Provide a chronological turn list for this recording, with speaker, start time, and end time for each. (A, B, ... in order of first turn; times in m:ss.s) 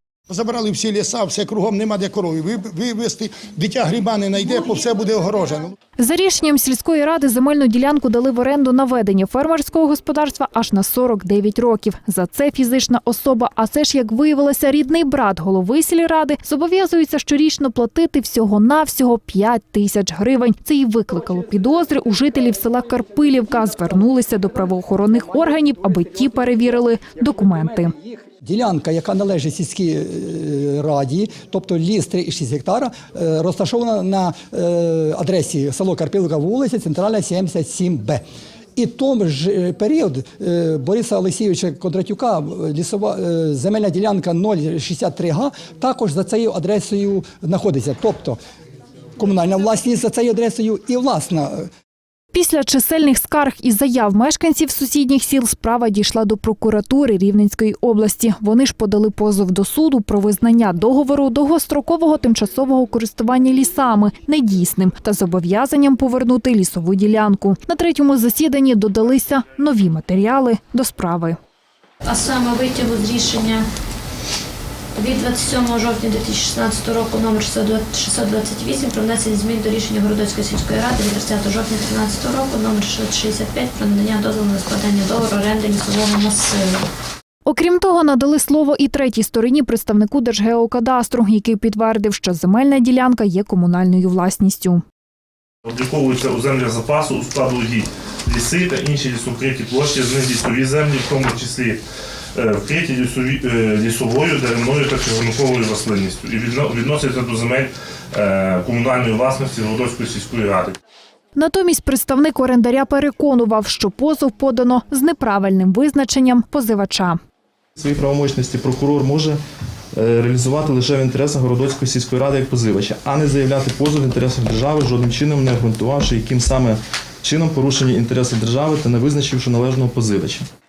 0:00.3-0:05.8 A
0:06.0-0:27.9 B
0:28.3-0:38.2 C
0:38.8-0:48.4 C
0:49.2-0:51.7 C
0:52.3-1:11.4 B
1:12.0-1:13.7 D
1:15.0-1:26.8 D
1:27.5-1:34.8 B
1:35.6-1:41.8 E
1:42.4-1:50.8 E
1:51.4-1:57.2 B
1:57.8-1:59.4 F
2:00.0-2:10.5 F